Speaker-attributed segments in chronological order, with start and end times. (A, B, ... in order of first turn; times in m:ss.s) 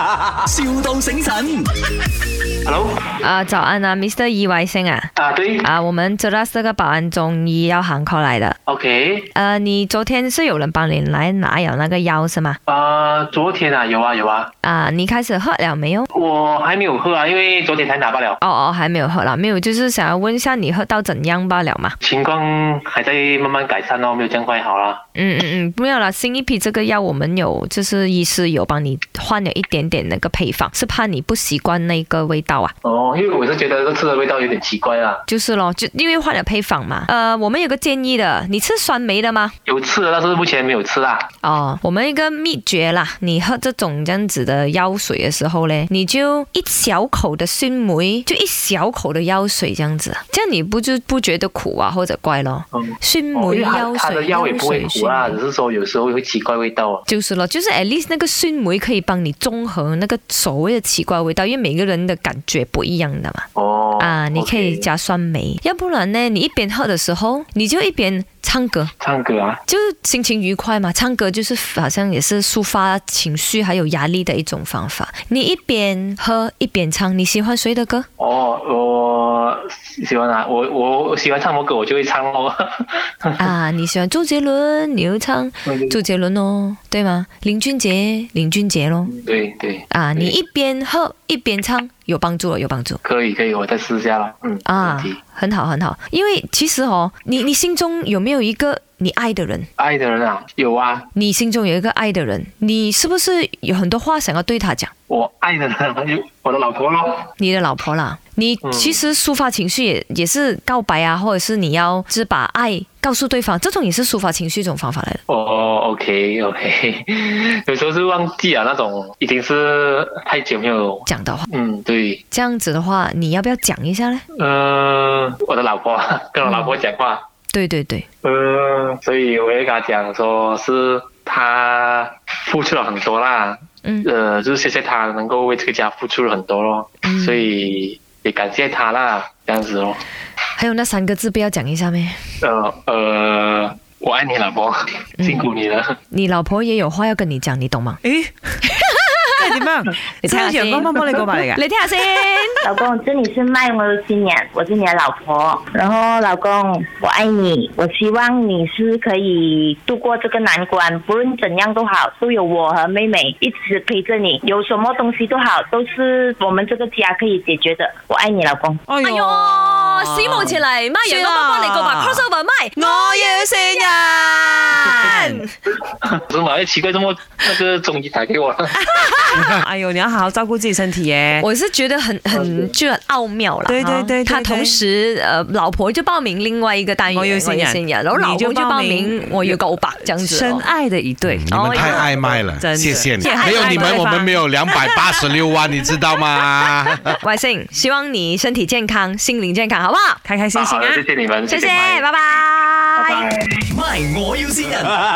0:00.3-0:01.7 A
0:02.6-0:03.2 B
0:03.2-0:08.6 C
0:05.2-0:05.7 B
0:08.7-0:09.3 B
0:09.3-0:12.6 C
0:12.7-0:14.5 B
0:14.6-0:16.1 C
0:16.1-0:18.4 B
0:18.4-0:21.9 C
0:22.0-0:25.0 B
0:25.2-0:32.7 C
0:32.8-0:35.2 B
0:35.3-0:39.5 C
0:39.6-0:41.3 B
0:41.4-0:55.4 C
0:52.7-0:57.0 B
0:57.1-1:03.4 C
1:03.6-1:04.8 B
1:04.0-1:08.9 C
1:09.0-1:09.6 B
1:09.7-1:18.1 C
1:18.2-1:23.5 B
1:23.4-1:29.1 C
1:25.6-1:26.0 B
1:29.1-1:30.4 B
1:29.9-1:33.0 C
1:33.0-1:35.2 B
1:34.6-1:39.7 C
1:39.8-1:41.1 B
1:41.2-1:44.9 C
1:45.1-1:47.3 B
1:47.4-1:55.2 C
1:48.6-1:49.0 B
1:55.3-2:02.2 B
2:01.1-2:01.5 C
2:02.3-2:04.2 C
2:04.3-2:07.2 B
2:06.4-2:06.8 C
2:07.5-2:08.0 C
2:08.2-2:20.0 B
2:17.0-2:17.4 C
2:20.6-2:22.2 C
2:22.4-2:26.0 B
2:25.2-2:25.5 C
2:26.1-2:28.0 C
2:28.0-2:28.3 D
2:28.8-2:29.6 C
2:29.4-2:31.6 D
2:30.2-2:32.6 C
2:32.6-2:48.8 E
2:48.9-2:55.4 D
2:49.0-2:55.5 C
2:56.0-2:58.7 B
2:58.8-3:01.4 D
2:59.1-2:59.4 C
3:01.4-3:10.7 C
3:02.3-3:02.7 B
3:03.6-3:04.8 D
3:07.1-3:15.2 D
3:11.3-3:17.2 F
3:11.5-3:12.2 C
3:13.1-3:14.2 C
3:17.2-3:20.2 C
3:20.2-3:21.0 D
3:20.5-3:22.0 B
3:21.5-3:23.3 C
3:22.9-3:23.7 B
3:23.7-3:25.0 A